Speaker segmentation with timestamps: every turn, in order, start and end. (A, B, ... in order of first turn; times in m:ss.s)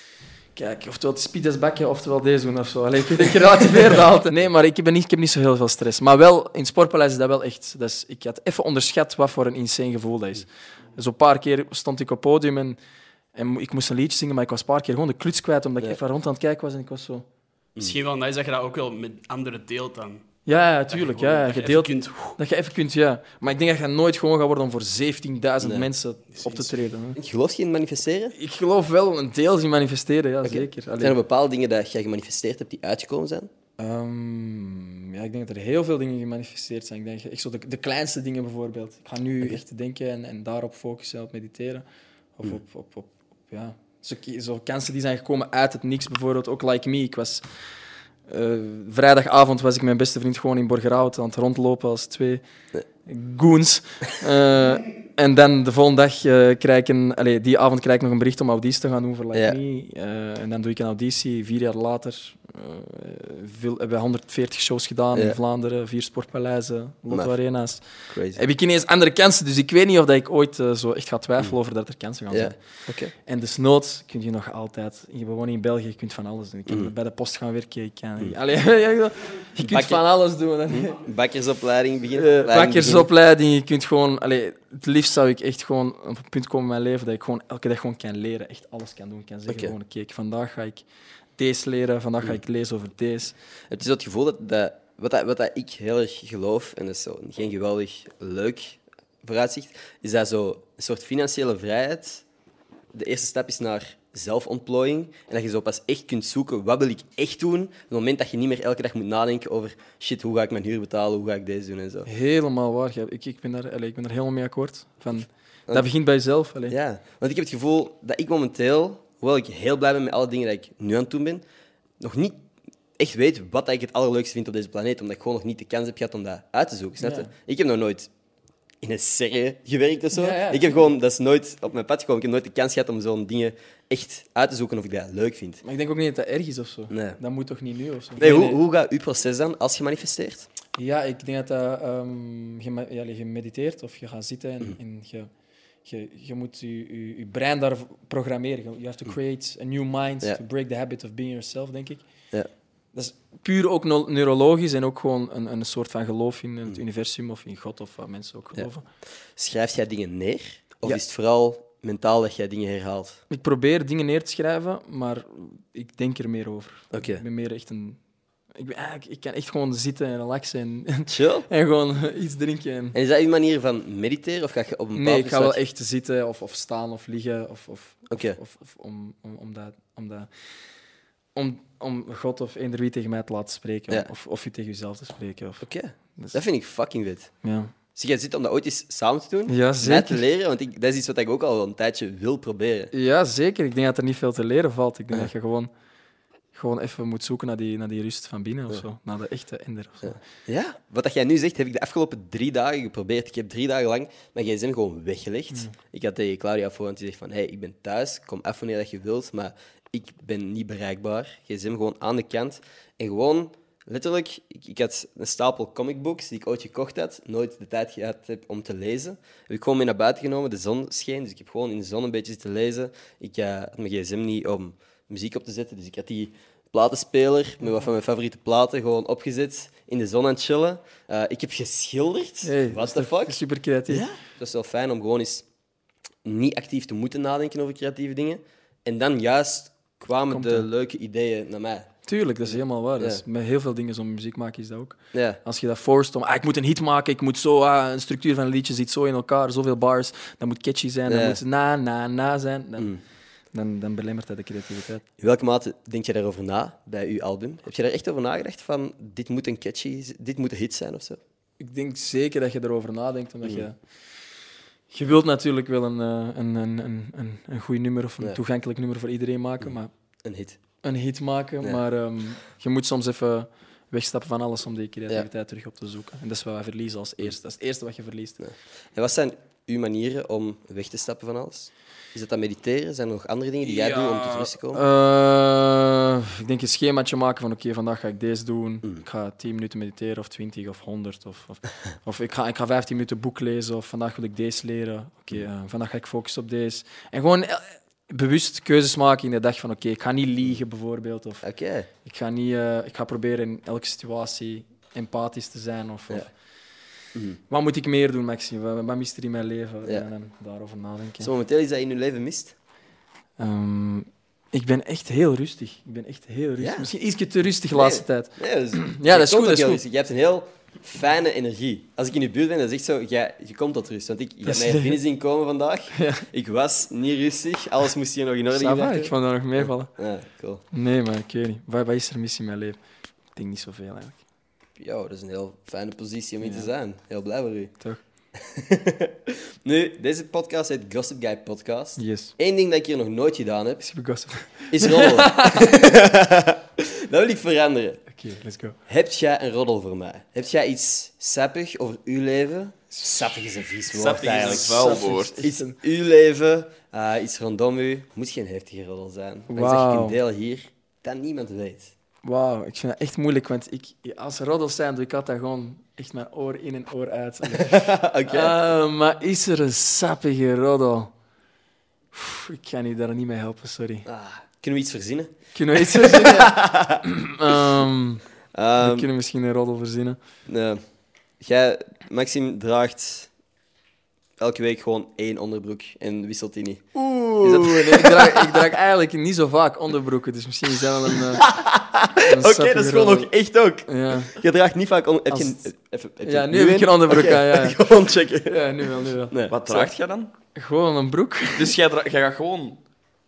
0:00.5-0:12.8 A
0:13.3-0:17.2 A
0:17.8-0:20.2 B
0:20.4-0:27.2 A
0:20.9-0:22.4 B
0:25.6-0:25.9 C
0:26.4-0:26.7 B
0:27.2-0:28.3 C
0:28.3-0:31.2 A
0:30.4-0:33.5 C
0:33.8-0:41.8 A
0:42.4-0:47.4 A
0:48.3-0:52.4 A
0:53.0-1:07.8 A
0:59.3-0:59.6 C
1:05.1-1:05.4 C
1:08.1-1:08.4 C
1:08.3-1:12.6 A
1:12.3-1:13.1 C
1:13.2-1:21.0 A
1:16.7-1:16.9 C
1:19.6-1:20.0 C
1:20.7-1:23.1 C
1:22.1-1:30.8 A
1:29.5-1:29.7 C
1:31.4-1:33.3 A
1:33.7-1:42.2 C
1:42.9-1:52.1 C
1:52.0-1:56.7 A
1:56.7-2:01.4 C
2:02.0-2:02.4 C
2:03.0-2:08.1 C
2:07.0-2:07.3 A
2:08.8-2:15.6 C
2:10.1-2:10.8 A
2:15.6-2:18.6 A
2:16.9-2:17.2 C
2:18.2-2:20.5 C
2:20.7-2:25.3 A
2:25.8-2:32.0 A
2:32.9-2:38.8 A
2:39.4-2:43.2 C
2:43.3-2:48.0 A
2:46.9-2:47.2 C
2:48.5-2:53.0 A
2:51.1-2:51.5 C
2:52.9-2:55.6 C
2:54.9-3:00.3 A
2:58.1-2:58.4 C
3:01.4-3:05.6 A
3:05.6-3:07.3 C
3:07.4-3:07.7 A
3:07.9-3:12.9 C
3:09.5-3:10.2 A
3:12.9-3:15.7 A
3:16.5-3:20.2 A
3:20.0-3:55.4 C
3:52.4-3:54.0 A
3:56.2-4:01.9 C
4:00.3-4:00.7 A
4:02.1-4:12.9 A
4:02.4-4:03.2 C
4:05.1-4:05.4 C
4:11.1-4:11.4 C
4:13.5-4:15.0 A
4:15.2-4:21.2 C
4:21.6-4:23.8 A
4:23.4-4:23.7 C
4:24.9-4:29.9 A
4:29.6-4:30.6 C
4:30.8-4:38.4 A
4:38.4-4:44.8 C
4:43.8-4:44.1 D
4:44.2-5:01.4 A
5:01.4-5:01.9 C
5:02.0-5:06.3 A
5:07.1-5:07.4 C
5:07.5-5:11.3 A
5:11.2-5:12.5 C
5:13.4-5:19.8 A
5:16.6-5:16.9 C
5:17.7-5:30.6 C
5:24.4-5:25.0 A
5:26.0-5:26.2 A
5:28.5-5:29.9 A
5:30.7-5:32.8 A
5:33.3-5:34.2 A
5:34.8-5:37.7 C
5:36.4-5:36.7 A
5:38.4-5:43.9 C
5:42.0-5:42.3 A
5:43.8-5:45.7 A
5:44.7-5:48.0 C
5:48.1-5:48.8 A
5:48.9-6:01.9 C
5:52.9-5:53.2 A
5:53.9-5:55.4 D
5:54.3-5:55.8 A
5:59.5-6:00.2 A
6:02.2-6:11.1 A
6:07.5-6:08.6 C
6:12.1-6:14.0 A
6:14.0-6:17.0 C
6:15.5-6:18.2 A
6:18.5-6:19.1 C
6:18.8-6:20.2 A
6:20.5-6:20.8 C
6:21.4-6:23.3 C
6:24.4-6:28.7 C
6:26.9-6:31.5 A
6:31.1-6:38.6 C
6:32.2-6:33.3 A
6:33.8-6:34.3 A
6:35.3-6:35.6 A
6:36.2-6:39.9 A
6:39.3-6:39.6 C
6:39.5-6:40.3 D
6:40.5-6:41.7 A
6:41.5-6:42.8 D